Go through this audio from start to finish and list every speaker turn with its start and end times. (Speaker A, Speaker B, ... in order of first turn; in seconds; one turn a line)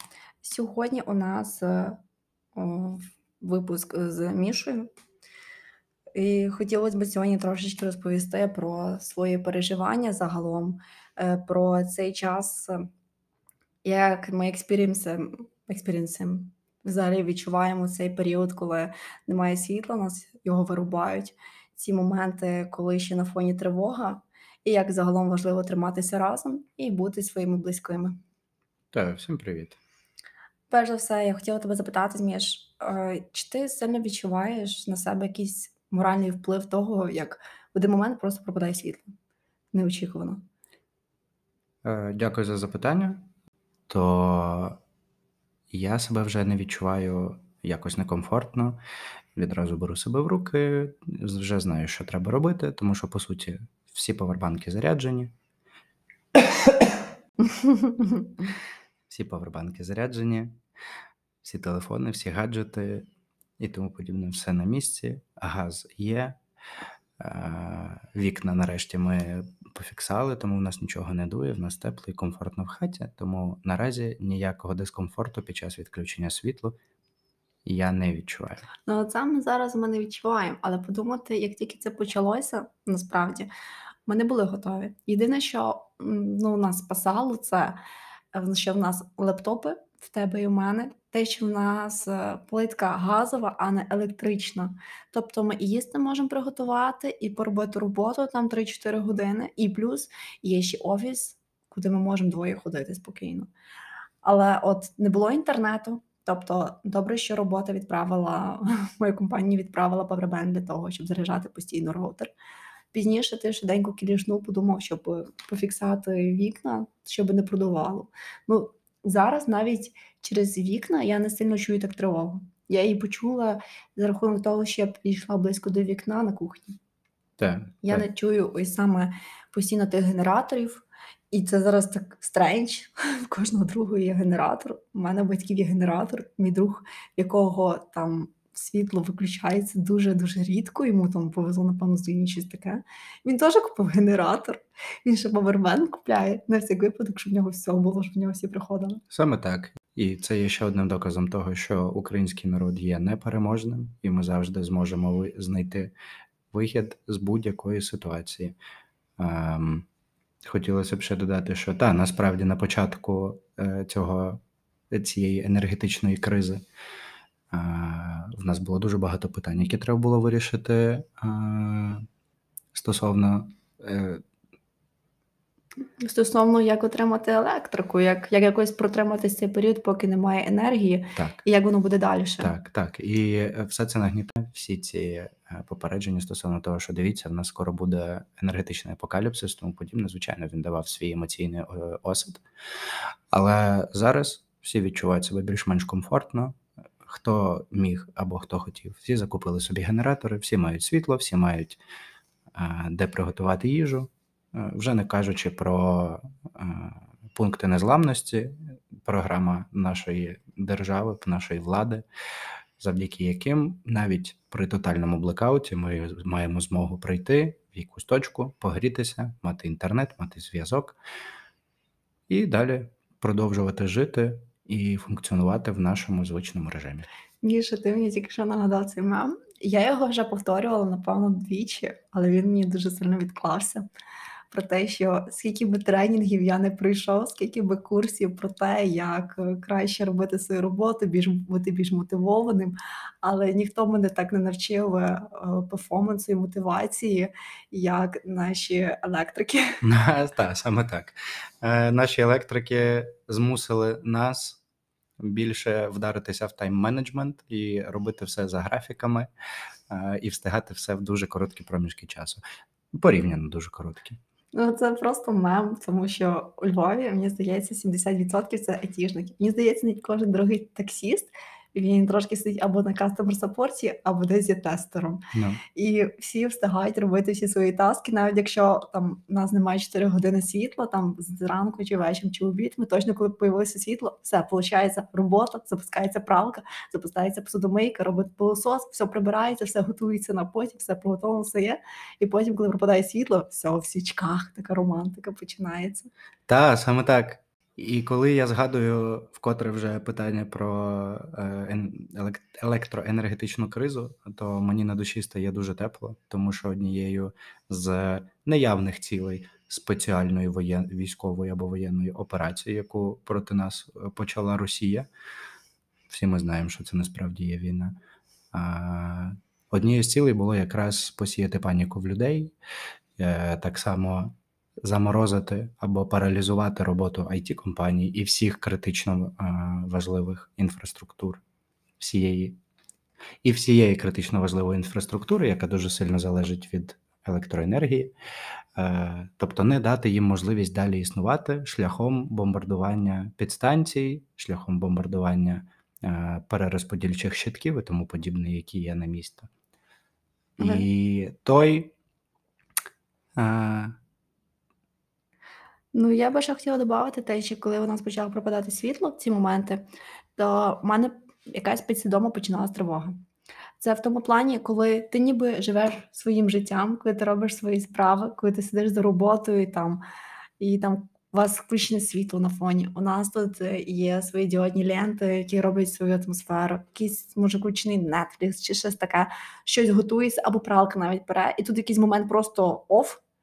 Speaker A: 0.4-2.0
Speaker A: 2.5-4.9
Speaker A: 6.1-12.8
Speaker A: 13.8-28.2
Speaker B: 28.9-29.8
Speaker A: 30.7-39.1
Speaker A: 39.7-40.4
Speaker B: 41.8-43.2
Speaker B: 43.9-44.8
Speaker B: 45.7-48.8
Speaker B: 49.4-55.3
Speaker A: 57.4-58.3
Speaker B: 59.1-60.6
Speaker B: 61.4-63.0
Speaker B: 63.6-66.4
Speaker B: 67.2-76.8
Speaker B: 77.6-78.7
Speaker A: 78.9-83.5
Speaker A: 84.1-87.8
Speaker A: 88.3-103.5
Speaker A: 104.2-112.3
Speaker A: 112.9-126.8
Speaker B: 127.4-128.0
Speaker A: 127.8-149.0
Speaker B: 149.1-155.9
Speaker B: 156.5-158.6
Speaker B: 159.2-159.9
Speaker B: 160.4-164.4
Speaker B: 164.9-166.6
Speaker B: 167.5-172.0
Speaker B: 172.7-174.2
Speaker A: 176.0-182.5
Speaker B: 182.4-201.8
Speaker B: 202.5-212.1
Speaker B: 212.8-221.0
Speaker B: 222.3-227.1
Speaker A: 227.4-233.9
Speaker A: 234.5-249.8
Speaker B: 249.8-254.6
Speaker B: 255.2-259.3
Speaker B: 259.9-262.4
Speaker B: 262.9-264.2
Speaker A: 264.5-275.2
Speaker B: 275.3-275.6
Speaker A: 275.7-296.1
Speaker B: 296.5-315.1
Speaker B: 316.1-317.9
Speaker B: 318.5-322.5
Speaker B: 323.2-331.4
Speaker B: 332.0-332.6
Speaker B: 333.4-338.1
Speaker B: 338.8-349.5
Speaker B: 350.6-351.9
Speaker A: 350.6-350.9
Speaker B: 353.4-353.9
Speaker A: 355.9-363.1
Speaker A: 363.8-370.0
Speaker A: 370.6-383.2